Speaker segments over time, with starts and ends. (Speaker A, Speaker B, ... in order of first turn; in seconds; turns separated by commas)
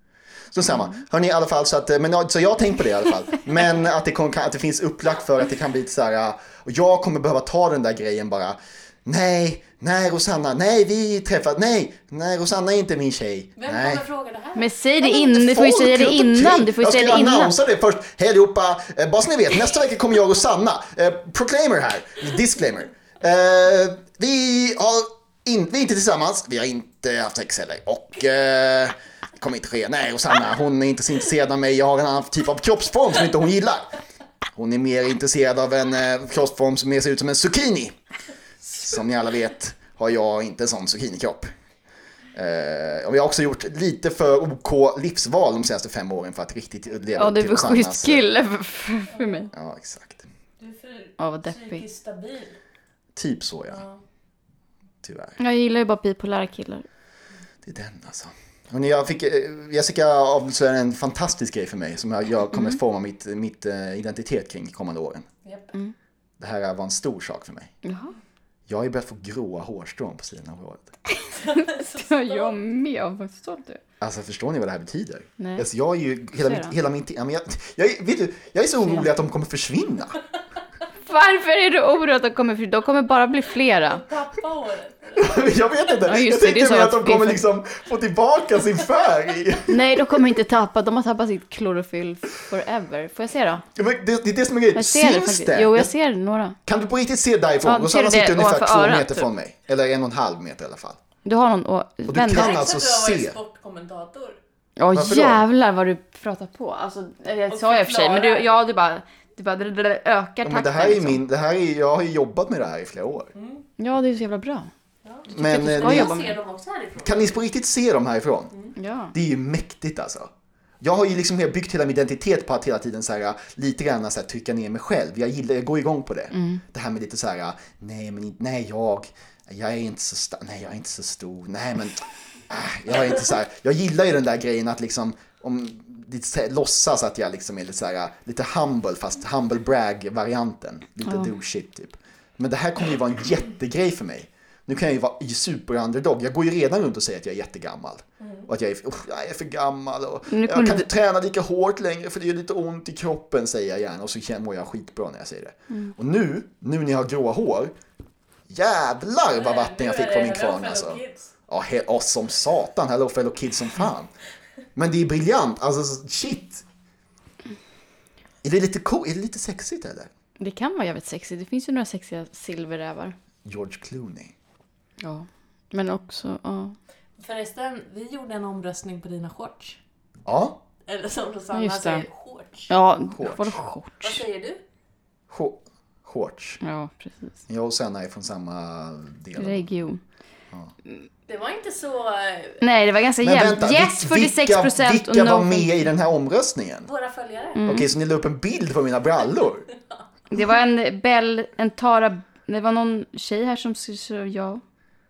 Speaker A: 0.5-14.0, Speaker B: 0.7-0.9, Speaker C: 13.6-14.7, Speaker B: 14.6-17.5, Speaker A: 15.0-33.9, Speaker A: 34.5-38.0, Speaker A: 38.6-41.5, Speaker A: 42.3-48.2, Speaker B: 47.1-49.5, Speaker C: 49.1-49.5, Speaker A: 49.5-50.2, Speaker C: 50.6-52.6, Speaker B: 51.2-51.8, Speaker A: 53.1-53.8, Speaker C: 53.7-54.0, Speaker A: 55.0-55.4, Speaker B: 55.4-56.8, Speaker A: 57.6-65.3, Speaker B: 62.5-62.8, Speaker C: 65.4-65.7, Speaker A: 66.4-67.7, Speaker B: 67.8-68.1, Speaker A: 68.7-70.9, Speaker B: 71.1-73.8, Speaker C: 71.4-72.5, Speaker A: 74.0-80.2, Speaker B: 75.4-75.6, Speaker B: 76.4-76.7, Speaker B: 81.0-84.0, Speaker C: 83.8-85.5, Speaker A: 85.2-90.2, Speaker B: 86.0-87.4, Speaker B: 89.7-93.6, Speaker A: 93.7-95.9, Speaker B: 94.7-96.6, Speaker A: 96.7-101.0, Speaker B: 97.6-99.3, Speaker B: 101.2-102.5, Speaker A: 102.1-103.4, Speaker C: 102.3-104.4, Speaker B: 104.8-111.2, Speaker A: 104.9-105.4, Speaker C: 107.5-108.5, Speaker A: 110.4-113.3, Speaker C: 113.3-113.6, Speaker B: 113.8-114.7, Speaker C: 115.0-117.3, Speaker A: 115.3-116.1, Speaker B: 115.3-116.3, Speaker A: 117.0-118.5, Speaker B: 118.8-119.1, Speaker A: 119.1-120.3, Speaker A: 120.8-157.7, Speaker B: 126.3-126.6, Speaker C: 148.2-148.5, Speaker B: 150.3-150.9, Speaker A: 158.5-164.1, Speaker C: 159.3-161.3, Speaker A: 164.8-166.6, Speaker A: 168.4-170.1, Speaker B: 170.4-173.1, Speaker A: 173.4-174.3, Speaker B: 175.0-176.7, Speaker C: 177.2-179.8, Speaker A: 180.2-180.6, Speaker C: 180.9-182.7, Speaker B: 181.5-182.0, Speaker B: 182.7-184.2, Speaker A: 183.1-183.6, Speaker C: 184.0-184.6, Speaker A: 185.3-186.6, Speaker B: 186.6-187.3, Speaker A: 187.5-189.7, Speaker B: 189.3-190.0, Speaker C: 191.3-192.6, Speaker B: 192.6-195.8, Speaker A: 193.2-196.9, Speaker C: 196.8-197.6, Speaker B: 197.6-197.9, Speaker A: 197.7-199.7, Speaker B: 200.3-204.6